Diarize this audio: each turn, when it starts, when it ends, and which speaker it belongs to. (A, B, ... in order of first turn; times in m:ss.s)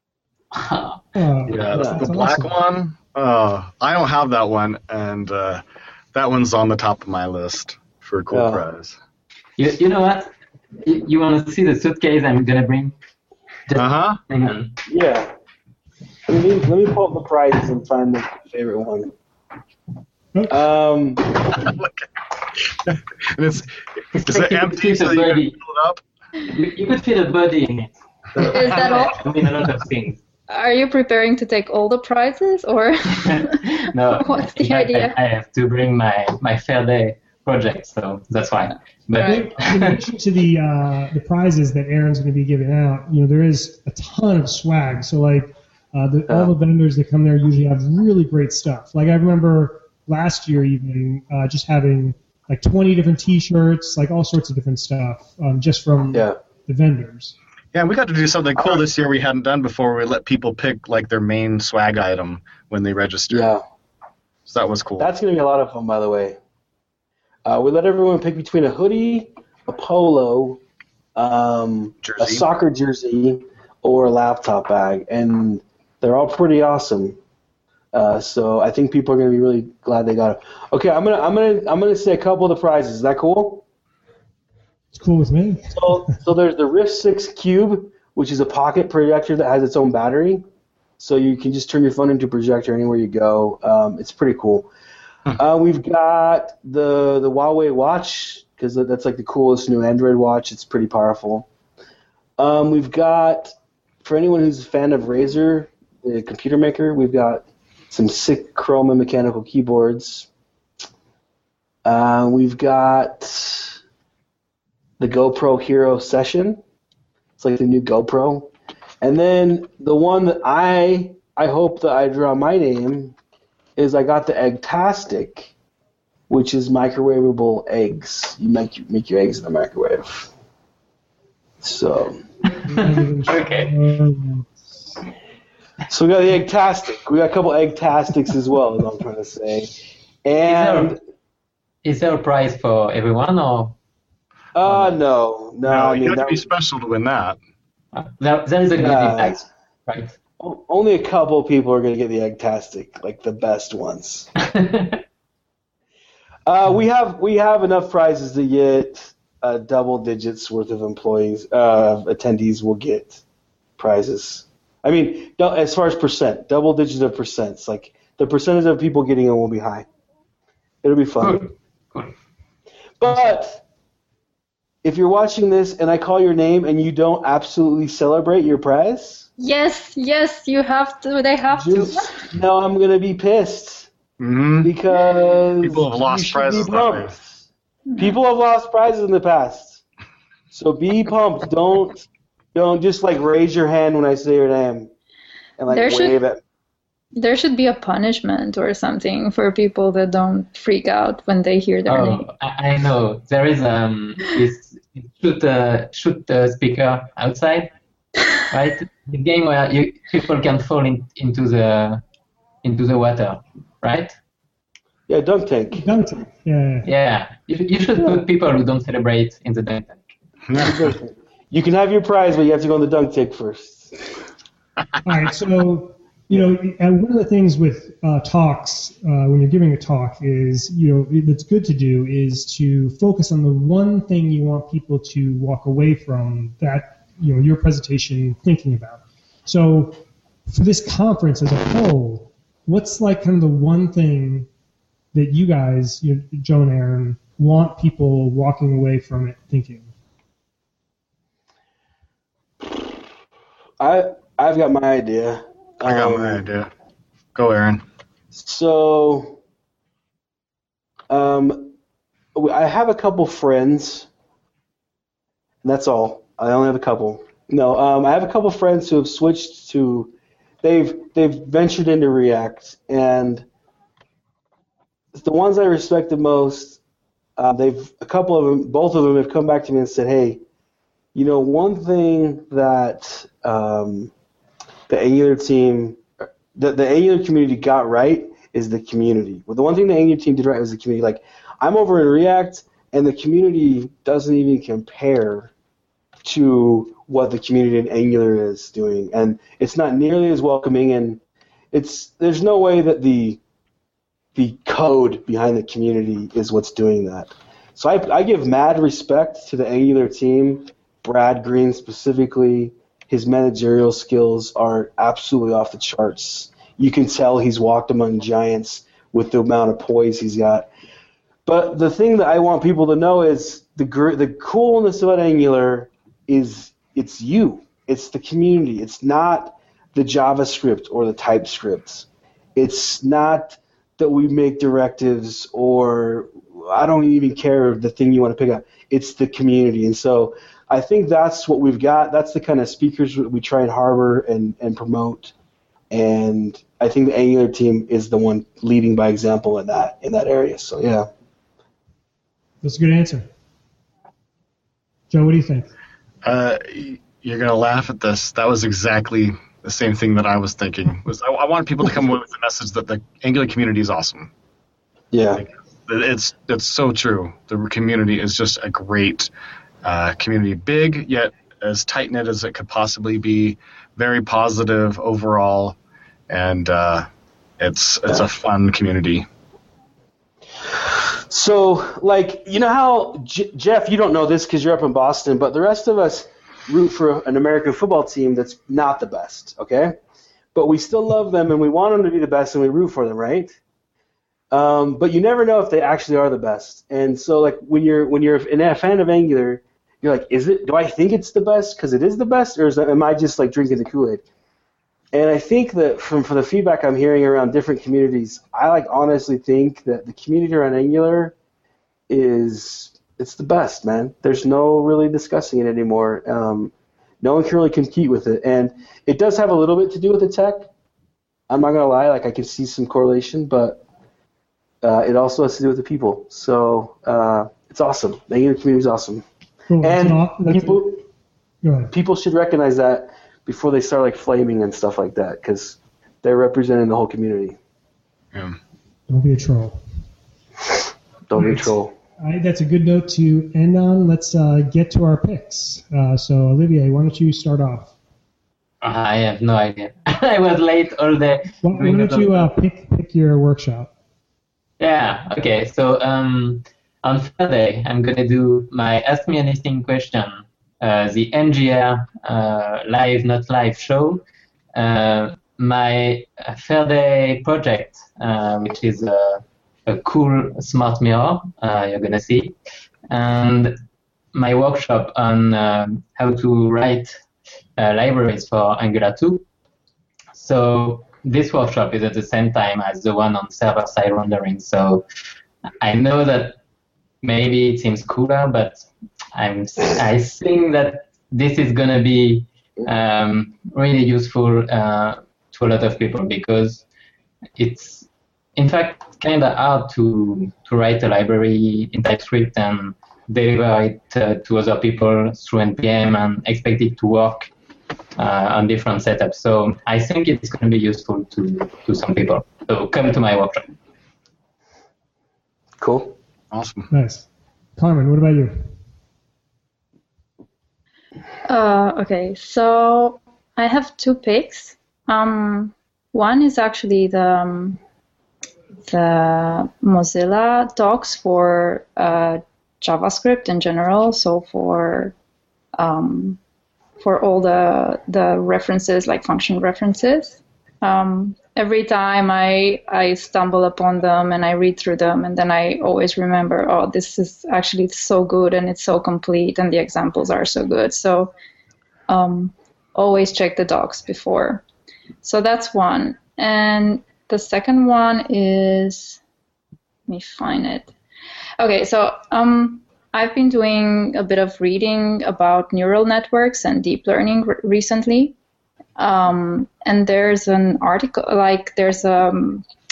0:00.5-0:01.0 A
0:01.1-0:02.5 B
0:01.4-0:05.6 C
0:01.7-0:02.0 D
0:06.1-0:09.0 C
0:08.3-0:08.6 D
0:09.6-0:10.3 A
0:10.8-0:12.9 A
0:13.7-0:14.7 A
0:13.7-0:14.2 C
0:14.9-0:15.3 D
0:16.3-0:19.1 D
0:20.5-0:21.6 D
0:21.5-0:21.9 C
0:22.6-0:26.0 C
0:24.1-0:25.6 A
0:26.5-0:30.2 A
0:28.4-0:29.2 E
0:28.4-0:28.9 C
0:30.5-0:33.6 E
0:33.2-0:40.0 A
0:34.1-0:35.2 E
0:39.2-0:39.5 E
0:39.2-0:57.4 B
0:46.3-0:46.5 D
0:56.1-0:56.4 D
0:57.7-1:03.5 C
1:03.3-1:03.6 D
1:04.5-1:05.1 C
1:05.0-1:06.4 D
1:07.4-1:10.6 D
1:11.2-1:17.2 D
1:12.0-1:12.4 C
1:17.9-1:23.6 D
1:24.9-1:26.1 B
1:25.7-1:30.4 D
1:31.0-1:34.7 D
1:35.3-1:41.4 D
1:42.4-1:50.3 D
1:51.8-1:53.7 D
1:55.0-1:56.6 D
1:57.4-2:03.1 D
2:03.8-2:05.5 D
2:06.3-2:10.3 D
2:11.6-2:12.2 D
2:12.6-2:14.9 B
2:13.3-2:13.7 A
2:15.9-2:21.0 D
2:20.4-2:20.9 A
2:21.8-2:23.8 A
2:24.5-2:26.4 D
2:24.6-2:25.0 A
2:25.6-2:27.4 C
2:27.9-2:30.1 A
2:28.7-2:29.4 D
2:30.4-2:34.3 D
2:34.4-2:35.0 A
2:36.4-2:43.2 D
2:43.8-2:49.8 D
2:50.8-2:51.4 D
2:51.2-2:52.1 A
2:53.0-2:53.6 D
2:54.8-2:59.3 D
2:59.4-3:02.3 E
3:01.5-3:03.9 D
3:04.2-3:04.7 C
3:04.6-3:07.4 D
3:05.6-3:07.2 C
3:07.9-3:08.2 E
3:08.0-3:09.8 D
3:10.5-3:14.9 D
3:15.6-3:16.4 D
3:15.7-3:16.2 E
3:17.1-3:22.2 E
3:21.9-3:27.7 A
3:28.5-3:32.0 A
3:32.6-3:34.1 A
3:35.1-3:35.8 D
3:35.7-3:36.9 B
3:36.8-3:40.1 A
3:40.5-3:40.8 C
3:40.6-3:44.0 D
3:45.0-4:04.5 B
4:05.1-4:09.9 B
4:13.8-4:16.4 D
4:15.8-4:16.7 C
4:17.3-4:17.8 C
4:18.3-4:19.4 D
4:21.1-4:21.7 D
4:22.3-4:24.1 D
4:25.6-4:33.4 D
4:35.1-4:36.8 D
4:37.4-4:40.4 D
4:41.1-4:44.1 D
4:44.9-4:55.5 D
4:56.2-5:01.2 D
5:01.7-5:03.4 D
5:04.3-5:20.7 D
5:21.4-5:45.3 D
5:45.9-5:51.1 D
5:52.6-5:53.3 B
5:55.1-5:55.7 B
5:56.2-6:04.3 C
6:05.1-6:05.4 D
6:05.4-6:09.3 C
6:09.8-6:15.8 C
6:16.3-6:17.1 C
6:17.6-6:19.3 C
6:20.7-6:30.0 D
6:30.5-6:33.6 D
6:34.5-6:44.2 D
6:45.1-6:51.4 D
6:52.1-7:00.7 D
7:01.5-7:03.8 D
7:04.8-7:09.2 D
7:09.7-7:10.8 B
7:09.8-7:11.0 D
7:11.6-7:11.9 B
7:11.9-7:17.6 D
7:18.3-7:18.6 C
7:19.1-7:19.8 B
7:21.3-7:21.9 D
7:21.4-7:21.7 B
7:22.2-7:27.9 B
7:28.8-7:32.5 A
7:31.6-7:33.9 B
7:34.8-7:44.2 A
7:44.7-7:52.6 A
7:53.1-7:53.8 A
7:54.3-7:57.1 A
7:57.8-7:59.4 A
8:00.3-8:05.0 A
8:05.8-8:06.6 A
8:07.2-8:16.8 A
8:17.6-8:27.5 A
8:28.2-8:33.7 A
8:35.8-8:36.2 D
8:36.5-8:36.9 C
8:36.9-8:38.7 B
8:41.5-8:47.8 E
8:48.9-8:55.1 E
8:55.8-8:56.4 E
8:57.0-9:11.3 E
9:12.1-9:14.6 E
9:15.2-9:19.2 E
9:20.1-9:20.9 E
9:21.6-9:28.3 E
9:29.0-9:32.6 E